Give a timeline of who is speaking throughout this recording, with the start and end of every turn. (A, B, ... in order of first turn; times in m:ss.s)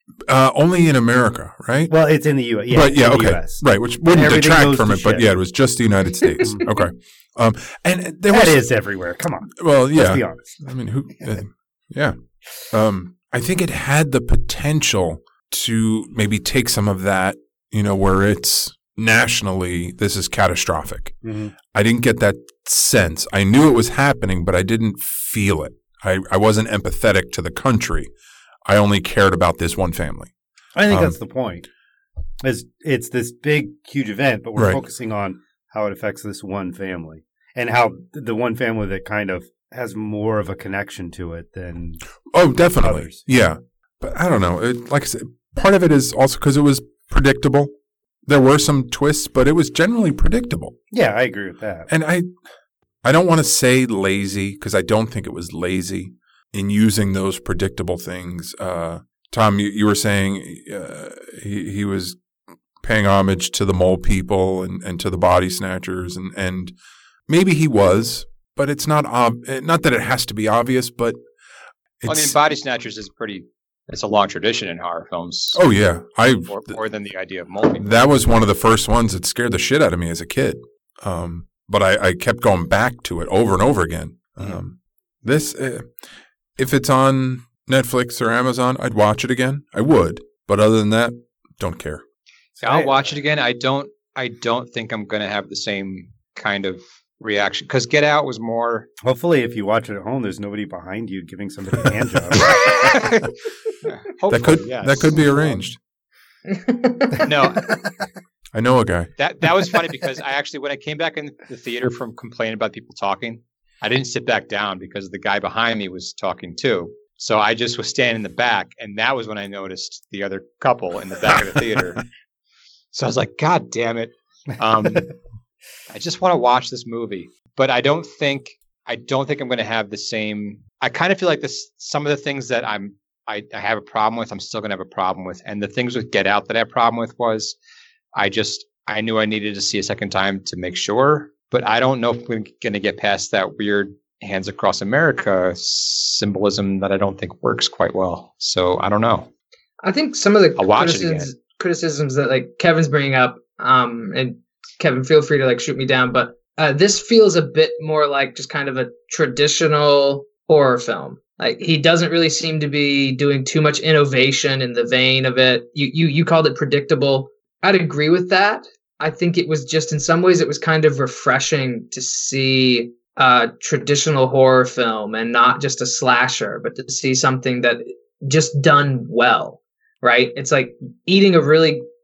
0:00.3-0:01.9 A
0:01.9-0:05.3 B
0:02.7-0:08.6 A
0:06.4-0:06.7 B
0:08.3-0:10.6 B
0:09.6-0:12.2 A
0:12.7-0:28.1 A
0:21.2-0:21.5 B
0:28.6-0:30.3 A
0:30.8-0:31.7 B
0:30.9-0:31.2 A
0:32.4-0:42.0 B
0:34.6-0:34.8 A
0:42.3-0:47.7 A
0:42.8-0:43.2 B
0:48.2-0:50.8 A
0:50.9-0:51.9 B
0:51.9-0:52.3 A
0:53.0-1:02.2 A
1:02.8-1:06.7 A
1:07.3-1:11.2 A
1:12.0-1:12.4 A
1:12.1-1:15.6 C
1:15.6-1:16.8 A
1:16.5-1:18.0 C
1:17.8-1:25.9 A
1:26.6-1:32.0 A
1:32.6-1:33.0 B
1:32.6-1:38.9 C
1:39.0-1:42.6 B
1:42.4-1:43.3 C
1:43.8-1:45.6 C
1:44.3-1:45.8 A
1:46.5-1:47.8 D
1:47.2-1:47.8 C
1:48.5-1:49.1 A
1:49.2-2:02.1 C
2:02.9-2:05.1 C
2:05.9-2:17.6 C
2:18.1-2:29.3 C
2:29.8-3:01.8 D
2:30.6-2:31.3 C